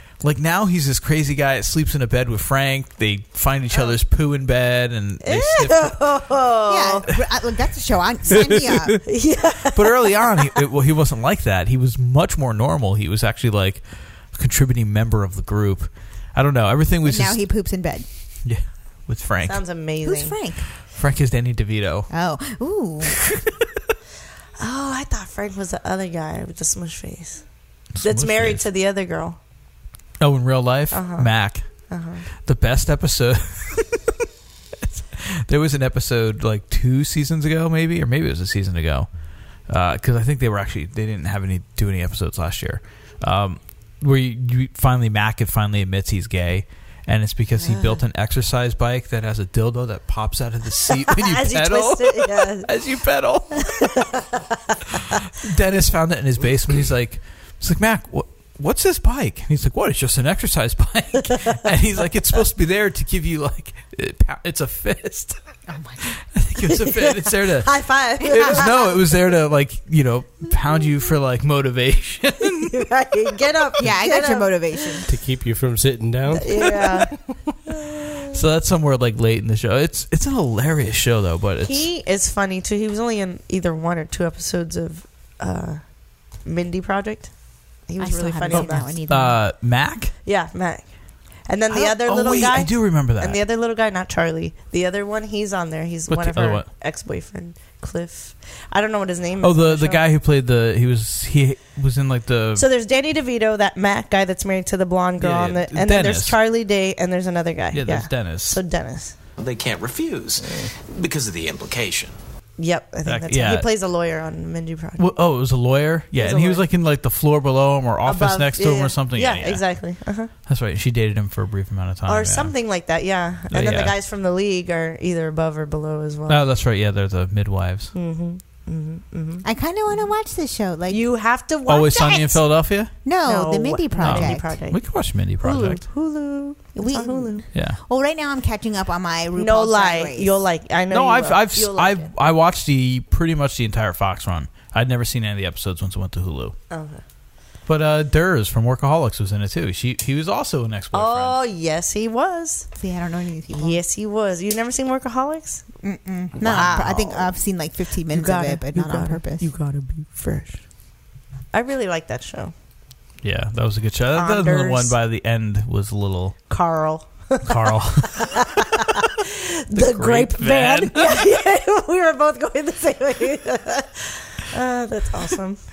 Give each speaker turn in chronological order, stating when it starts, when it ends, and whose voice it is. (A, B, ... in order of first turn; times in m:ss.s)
0:00.2-0:06.0 A
0:05.2-0:07.0 B
0:06.7-0:09.0 C
0:08.3-0:09.0 A
0:09.1-0:10.1 B
0:09.7-0:17.4 A
0:17.0-0:18.0 C
0:18.4-0:19.6 A
0:19.5-0:20.4 B
0:20.0-0:20.6 C
0:20.8-0:22.1 A
0:22.1-0:23.1 C
0:24.6-0:27.5 B
0:27.9-0:28.6 A
0:28.0-0:29.4 B
0:30.2-0:31.9 A
0:30.9-0:32.2 B
0:32.4-0:33.9 A
0:35.0-0:39.1 A
0:39.6-0:53.9 A
0:47.6-0:48.0 B
0:51.0-0:52.7 B
0:53.7-0:54.4 B
0:55.3-1:05.4 A
1:05.7-1:06.0 C
1:06.1-1:12.7 A
1:06.8-1:08.9 B
1:12.7-1:15.0 B
1:13.8-1:15.1 C
1:15.1-1:17.0 D
1:16.4-1:17.1 B
1:18.3-1:21.8 A
1:21.6-1:29.0 B
1:28.0-1:29.4 C
1:28.5-1:30.1 A
1:30.2-1:40.0 B
1:31.7-1:33.4 A
1:36.1-1:36.7 A
1:39.4-1:42.6 A
1:42.6-1:49.1 B
1:45.2-1:46.4 A
1:47.7-1:48.6 A
1:49.4-1:52.2 E
1:52.6-1:55.1 B
1:53.0-1:53.7 A
1:55.0-1:59.6 A
1:56.2-1:56.6 B
1:58.0-2:00.3 B
2:00.5-2:02.5 A
2:02.1-2:06.4 B
2:03.5-2:04.0 A
2:06.3-2:07.9 A
2:07.9-2:09.4 B
2:09.4-2:11.0 C
2:10.9-2:12.4 B
2:11.7-2:12.9 A
2:13.0-2:14.5 C
2:13.2-2:17.5 B
2:14.0-2:15.8 A
2:16.7-2:20.3 C
2:19.4-2:22.1 B
2:20.9-2:26.6 A
2:26.7-2:27.0 B
2:27.7-2:31.4 A
2:30.9-2:32.7 B
2:32.8-2:33.8 C
2:33.5-2:35.7 B
2:35.8-2:39.5 C
2:36.4-2:37.4 B
2:38.1-2:40.6 B
2:41.5-2:42.5 B
2:43.2-2:46.4 A
2:44.1-2:45.0 B
2:46.5-2:55.6 B
2:47.4-2:48.3 A
2:49.7-2:51.2 A